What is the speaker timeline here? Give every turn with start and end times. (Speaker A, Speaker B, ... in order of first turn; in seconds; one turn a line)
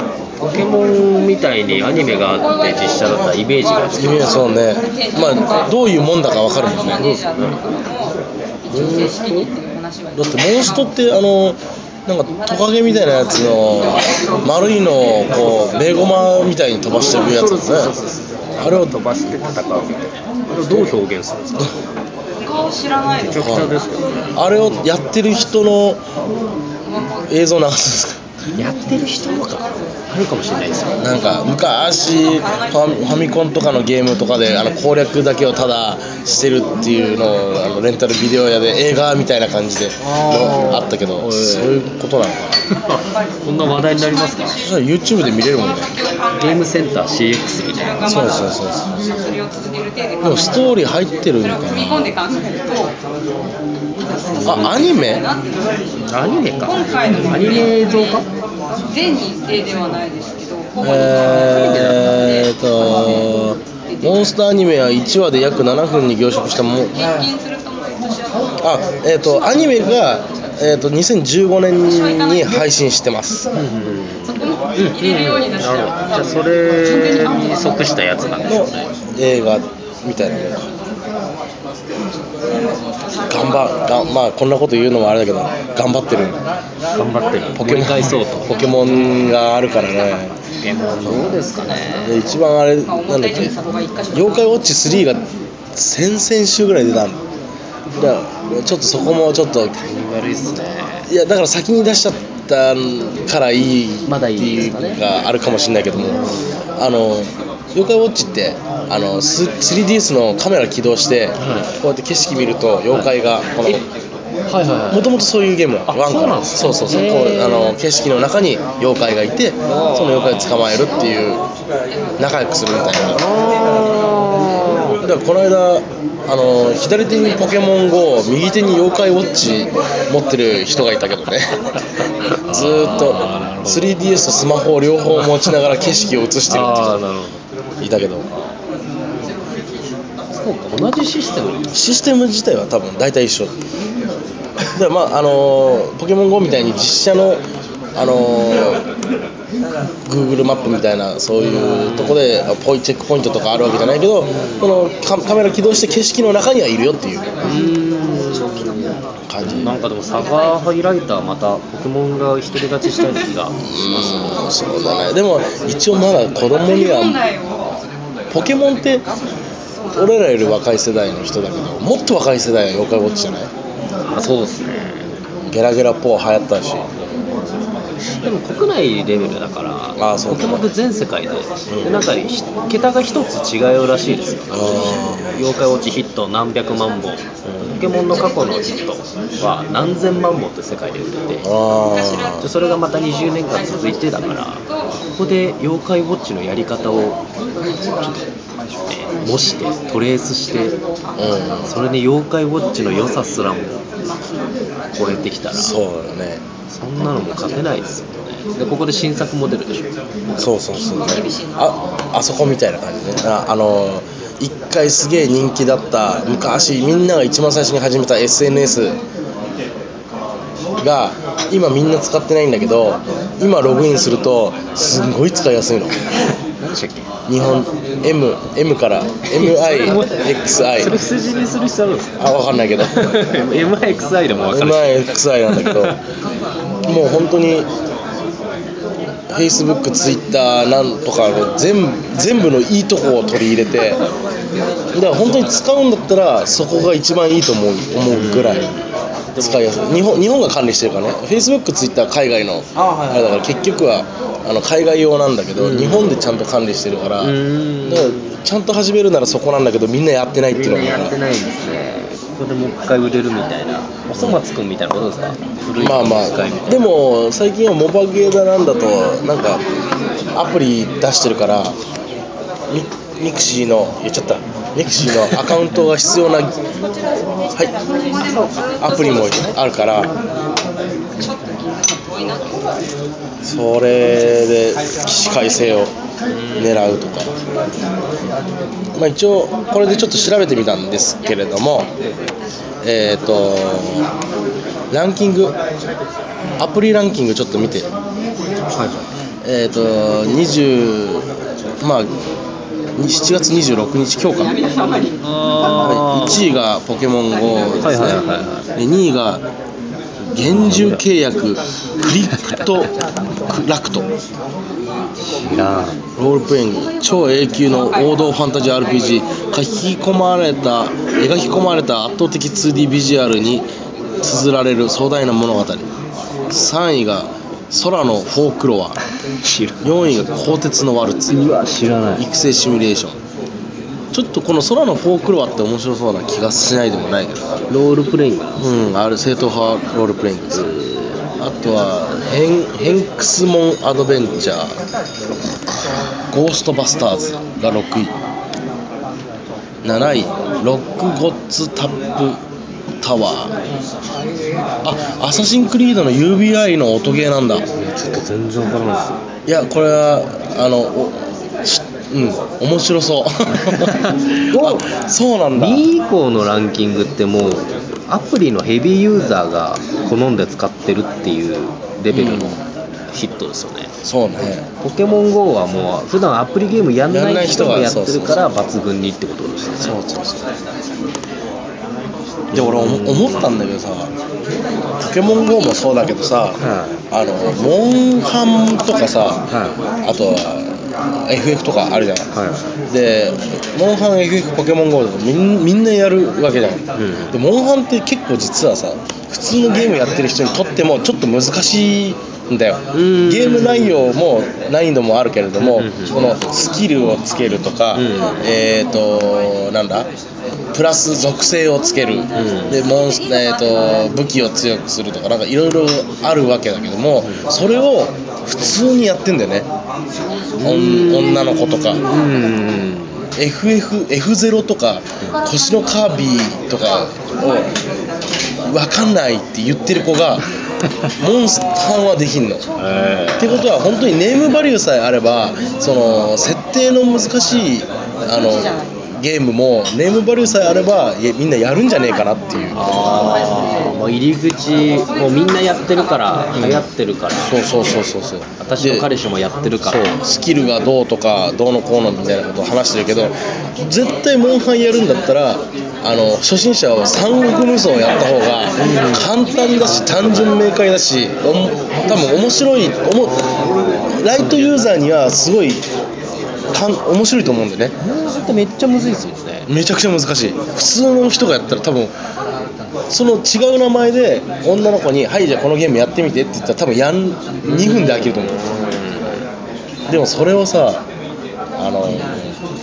Speaker A: 0.4-4.5
Speaker B: 2.2-5.7
Speaker C: 4.0-7.2
Speaker B: 6.5-10.8
Speaker A: 7.0-7.5
Speaker C: 8.7-9.4
Speaker C: 10.2-17.9
Speaker B: 12.7-15.1
Speaker A: 15.4-15.7
Speaker A: 16.9-21.7
Speaker C: 18.6-18.9
Speaker B: 22.4-23.9
Speaker A: 23.2-24.3
Speaker C: 23.3-23.8
Speaker C: 24.3-26.0
Speaker C: 27.3-28.2
Speaker A: 28.6-31.1
Speaker C: 31.0-42.6
Speaker B: 32.1-33.1
Speaker A: 40.0-41.9
Speaker A: 42.7-44.6
Speaker B: 42.9-46.7
Speaker C: 44.5-45.9
Speaker A: 46.4-48.0
Speaker B: 47.6-53.0
Speaker C: 48.0-49.0
Speaker C: 50.2-52.1
Speaker B: 54.3-55.8
Speaker A: 54.3-54.8
Speaker C: 54.4-55.3
Speaker A: 56.1-58.2
Speaker B: 56.5-58.3
Speaker B: 58.8-63.3
Speaker C: 60.8-67.0
Speaker A: 61.4-62.0
Speaker B: 64.0-64.3
Speaker B: 66.9-68.6
Speaker C: 68.6-73.5
Speaker B: 69.3-70.2
Speaker B: 71.9-72.6
Speaker A: 73.5-78.9
Speaker B: 74.3-78.2
Speaker C: 78.5-80.7
Speaker C: 83.3-86.4
Speaker B: 83.3-83.6
Speaker A: 86.9-88.7
Speaker C: 87.5-90.3
Speaker A: 90.6-92.3
Speaker C: 92.0-93.5
Speaker B: 92.8-94.5
Speaker C: 94.1-95.2
Speaker C: 95.7-97.2
Speaker C: 97.9-99.7
Speaker A: 99.8-101.1
Speaker C: 101.1-106.2
Speaker A: 104.0-105.0
Speaker A: 106.1-106.4
Speaker C: 106.8-113.8
Speaker A: 111.4-111.8
Speaker A: 114.5-115.1
Speaker C: 114.9-121.4
Speaker A: 115.9-117.7
Speaker A: 119.7-120.7
Speaker C: 122.2-123.2
Speaker A: 123.1-125.0
Speaker C: 125.0-131.6
Speaker A: 132.2-134.0
Speaker C: 132.4-137.0
Speaker A: 135.1-135.6
Speaker A: 136.5-137.4
Speaker C: 137.8-138.3
Speaker A: 140.3-141.8
Speaker C: 141.7-143.5
Speaker C: 144.7-147.4
Speaker C: 147.9-148.8
Speaker C: 150.1-157.3
Speaker A: 151.4-152.2
Speaker A: 154.3-154.7
Speaker A: 157.4-164.4
Speaker C: 159.3-159.7
Speaker C: 163.6-167.2
Speaker B: 166.5-167.8
Speaker C: 168.3-169.0
Speaker C: 169.9-173.5
Speaker A: 174.0-175.0
Speaker C: 175.5-176.9
Speaker A: 178.2-191.4
Speaker C: 180.0-180.7
Speaker C: 181.7-182.0
Speaker C: 184.5-185.4
Speaker B: 188.3-188.7
Speaker C: 191.4-192.5
Speaker B: 192.0-192.6
Speaker A: 192.4-197.2
Speaker A: 197.9-200.8
Speaker C: 201.2-201.7
Speaker A: 201.7-203.8
Speaker A: 204.9-205.7
Speaker C: 205.5-206.4
Speaker A: 206.7-209.9
Speaker C: 210.4-219.0
Speaker B: 210.9-211.7
Speaker C: 220.8-226.0
Speaker A: 226.6-227.1
Speaker C: 227.3-231.0
Speaker A: 229.3-232.2
Speaker C: 232.2-233.1
Speaker A: 232.8-236.0
Speaker C: 234.5-236.0
Speaker C: 236.8-237.7
Speaker C: 239.3-244.0
Speaker C: 244.9-248.7
Speaker A: 248.1-248.8
Speaker A: 249.3-249.8
Speaker C: 249.4-261.1
Speaker A: 252.7-253.5
Speaker A: 255.6-256.2
Speaker A: 257.2-258.3
Speaker A: 260.5-266.9
Speaker C: 265.8-269.6
Speaker C: 270.3-271.8
Speaker C: 272.7-276.5
Speaker B: 277.6-279.6
Speaker C: 278.8-280.1
Speaker B: 281.2-282.7
Speaker C: 283.4-285.9
Speaker A: 286.3-286.9
Speaker C: 286.6-287.3
Speaker C: 288.9-291.9
Speaker C: 292.8-294.1
Speaker C: 294.9-295.5
Speaker C: 296.6-297.9
Speaker A: 298.7-299.1
Speaker C: 299.4-301.2
Speaker C: 301.8-302.1
Speaker C: 303.0-304.6
Speaker B: 304.5-305.2
Speaker A: 305.2-306.4
Speaker C: 305.8-308.2
Speaker A: 307.8-308.7
Speaker C: 308.8-309.4
Speaker C: 310.3-312.9
Speaker A: 310.3-311.0
Speaker C: 313.5-314.1
Speaker A: 315.2-316.0
Speaker C: 316.2-323.6
Speaker C: 324.2-325.9
Speaker C: 326.5-329.0
Speaker A: 329.4-330.0
Speaker C: 329.8-331.4
Speaker A: 331.3-332.2
Speaker C: 332.1-333.1
Speaker C: 334.1-337.6
Speaker A: 337.7-338.7
Speaker C: 338.6-340.7
Speaker A: 340.5-341.2
Speaker C: 341.4-344.8
Speaker C: 346.3-348.1
Speaker C: 349.8-352.4
Speaker C: 353.0-353.6
Speaker C: 354.8-357.6
Speaker A: 357.7-359.2
Speaker C: 359.5-365.8
Speaker A: 363.6-364.9
Speaker A: 365.5-373.9
Speaker C: 372.1-372.6
Speaker C: 374.0-374.6
Speaker A: 374.8-380.0
Speaker C: 377.1-378.4
Speaker C: 379.8-380.4
Speaker C: 382.5-384.1
Speaker A: 382.5-383.5
Speaker C: 385.0-389.4
Speaker A: 386.6-386.9
Speaker A: 389.5-389.8
Speaker C: 390.0-392.3
Speaker A: 392.3-392.6
Speaker C: 392.9-410.1
Speaker A: 396.9-397.4
Speaker A: 402.9-404.1
Speaker A: 405.6-406.4
Speaker A: 407.9-408.5
Speaker C: 410.7-419.6
Speaker A: 412.3-412.8
Speaker A: 417.2-417.5
Speaker A: 420.6-423.3
Speaker C: 420.6-422.0
Speaker C: 423.4-427.7
Speaker C: 428.7-430.5
Speaker C: 431.1-432.7
Speaker A: 432.8-433.6
Speaker C: 433.4-443.1
Speaker A: 442.7-447.6
Speaker B: 445.5-445.9
Speaker C: 446.5-446.8
Speaker C: 447.4-449.1
Speaker A: 448.6-450.2
Speaker C: 449.8-465.9
Speaker A: 458.8-460.6
Speaker A: 463.2-464.9
Speaker C: 466.7-467.9
Speaker A: 468.0-469.7
Speaker C: 469.7-472.1
Speaker C: 473.1-478.6
Speaker A: 477.6-479.4
Speaker C: 480.1-481.0
Speaker C: 481.8-482.5